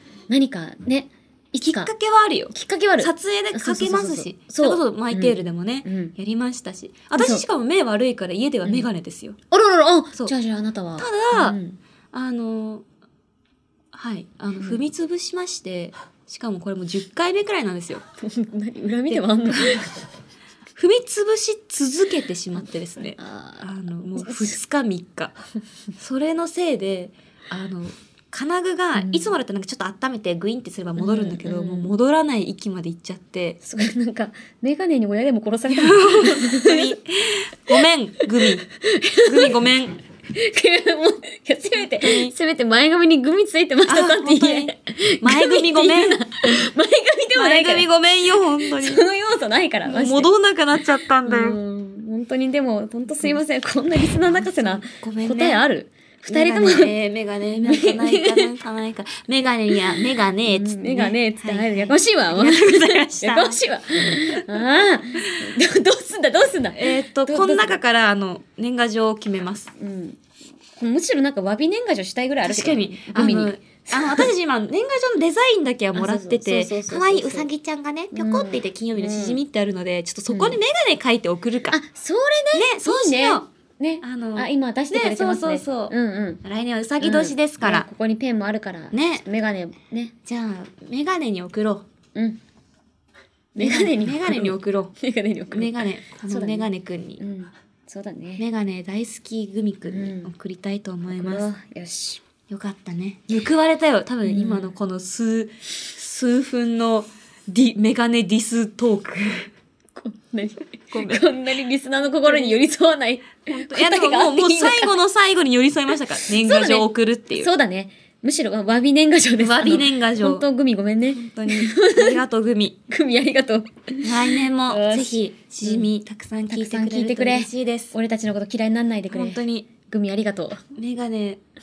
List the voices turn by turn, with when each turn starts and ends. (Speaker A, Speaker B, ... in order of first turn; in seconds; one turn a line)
Speaker A: 0.3-1.9
Speaker B: 1.6-9.4
Speaker A: 2.5-6.1
Speaker A: 7.2-7.4
Speaker A: 9.5-11.8
Speaker B: 11.0-11.6
Speaker B: 12.1-12.8
Speaker B: 13.9-18.0
Speaker A: 18.2-20.0
Speaker B: 19.1-19.8
Speaker B: 20.8-25.3
Speaker A: 23.2-23.7
Speaker A: 24.2-24.6
Speaker B: 26.0-33.6
Speaker A: 28.9-29.3
Speaker A: 31.0-31.9
Speaker A: 33.6-36.9
Speaker B: 35.7-38.7
Speaker A: 38.2-39.6
Speaker B: 39.2-40.0
Speaker A: 40.3-47.9
Speaker B: 41.8-42.3
Speaker B: 43.9-46.6
Speaker B: 47.4-49.0
Speaker A: 48.6-50.3
Speaker B: 49.9-51.6
Speaker A: 51.2-56.9
Speaker B: 54.2-55.6
Speaker B: 56.2-64.6
Speaker A: 57.6-58.5
Speaker A: 60.5-67.8
Speaker B: 65.2-65.5
Speaker B: 66.7-69.7
Speaker A: 69.8-70.2
Speaker A: 70.7-74.3
Speaker B: 72.4-81.8
Speaker A: 75.9-77.5
Speaker A: 78.1-79.4
Speaker A: 80.3-80.6
Speaker A: 81.7-86.4
Speaker B: 82.5-83.5
Speaker B: 84.0-87.9
Speaker A: 87.0-90.1
Speaker B: 88.9-89.2
Speaker B: 90.2-91.8
Speaker A: 92.1-92.4
Speaker A: 93.5-98.5
Speaker B: 93.6-95.0
Speaker B: 95.5-97.2
Speaker B: 98.4-101.5
Speaker A: 99.9-100.3
Speaker A: 101.1-102.2
Speaker B: 102.5-109.5
Speaker A: 104.2-104.7
Speaker A: 110.0-115.0
Speaker B: 110.9-111.2
Speaker B: 112.2-112.6
Speaker B: 113.5-117.5
Speaker A: 116.3-122.2
Speaker B: 119.4-120.5
Speaker B: 121.1-122.8
Speaker A: 122.9-125.9
Speaker B: 124.0-127.9
Speaker A: 126.5-130.7
Speaker B: 129.1-129.7
Speaker B: 130.7-131.4